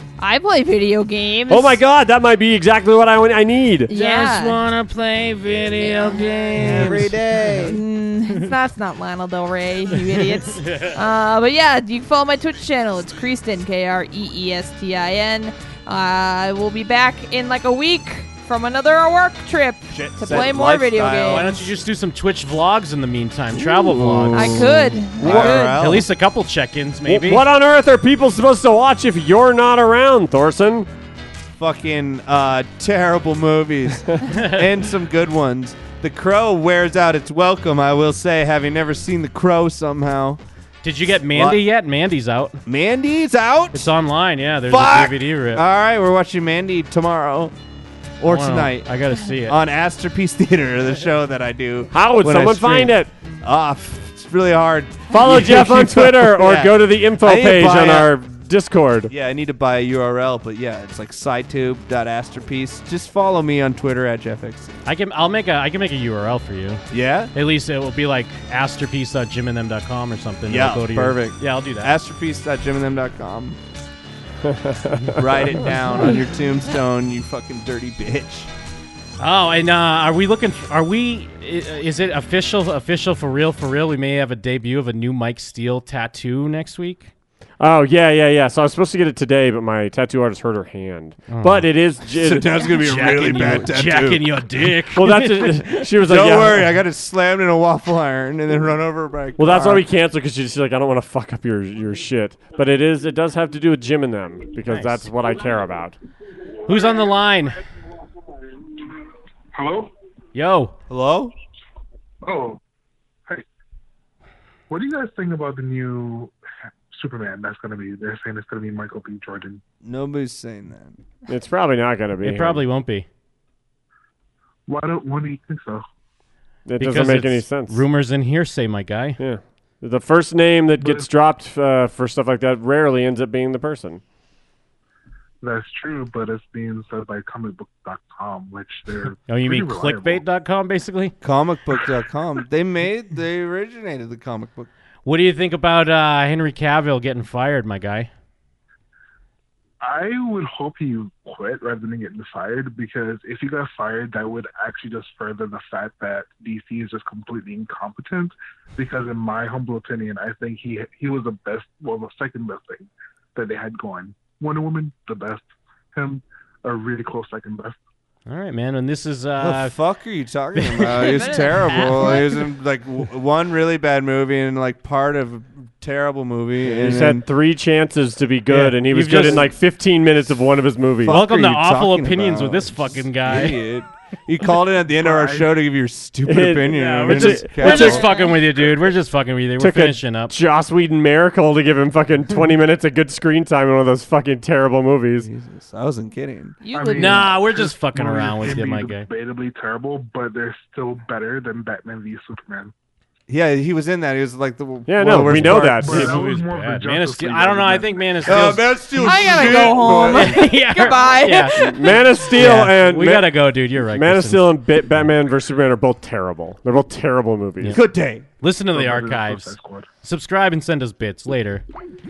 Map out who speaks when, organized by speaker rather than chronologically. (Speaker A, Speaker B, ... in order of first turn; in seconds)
Speaker A: 0.2-1.8, 3.9-4.6, 5.8-6.7, 7.6-21.5, 24.3-25.8, 170.8-172.4, 187.8-188.3, 196.6-197.4, 209.0-212.0
Speaker B: 1.5-3.9, 27.1-30.9, 51.9-53.1, 55.1-59.1, 74.4-75.0, 87.6-93.7, 94.9-96.8, 99.4-105.9, 121.3-122.6, 126.7-127.8, 129.2-134.0, 176.7-181.2, 186.3-188.1, 189.6-195.3, 204.9-206.2, 211.6-213.4, 213.9-217.8
Speaker C: 3.9-7.8, 9.9-10.9, 21.2-24.7, 25.2-27.4, 34.3-34.6, 40.8-42.6, 43.7-45.6, 48.2-49.6, 64.8-66.8, 67.3-71.9, 79.2-87.1, 91.3-91.7, 92.8-95.8, 104.7-105.1, 106.7-107.6, 110.3-110.7, 122.2-123.0, 126.8-129.2, 139.3-141.1, 145.0-148.1, 168.3-169.8, 170.5-172.3, 178.5-179.5, 181.1-183.6, 186.7-190.3, 196.9-199.1, 205.8-214.4, 218.4-221.6
Speaker D: 6.5-7.8, 19.9-21.6, 23.5-26.1, 31.6-40.4, 41.3-41.6, 42.6-43.9, 44.7-47.5, 48.2-48.9, 49.5-58.1, 59.1-64.8, 66.9-67.3, 70.5-73.6, 75.2-78.5, 92.1-94.4, 96.1-99.8, 110.9-111.3, 119.8-121.0, 141.2-144.7, 169.4-177.2, 179.1-179.5, 181.0-188.1, 195.2-196.6, 203.3-206.0, 208.2-210.5, 217.7-218.2
Speaker E: 109.5-109.9, 112.2-112.6, 114.7-116.3, 116.9-119.6, 124.7-125.8, 130.8-131.1, 135.4-140.2, 149.8-167.8, 185.0-185.6, 196.7-202.7, 205.8-208.4, 218.7-219.9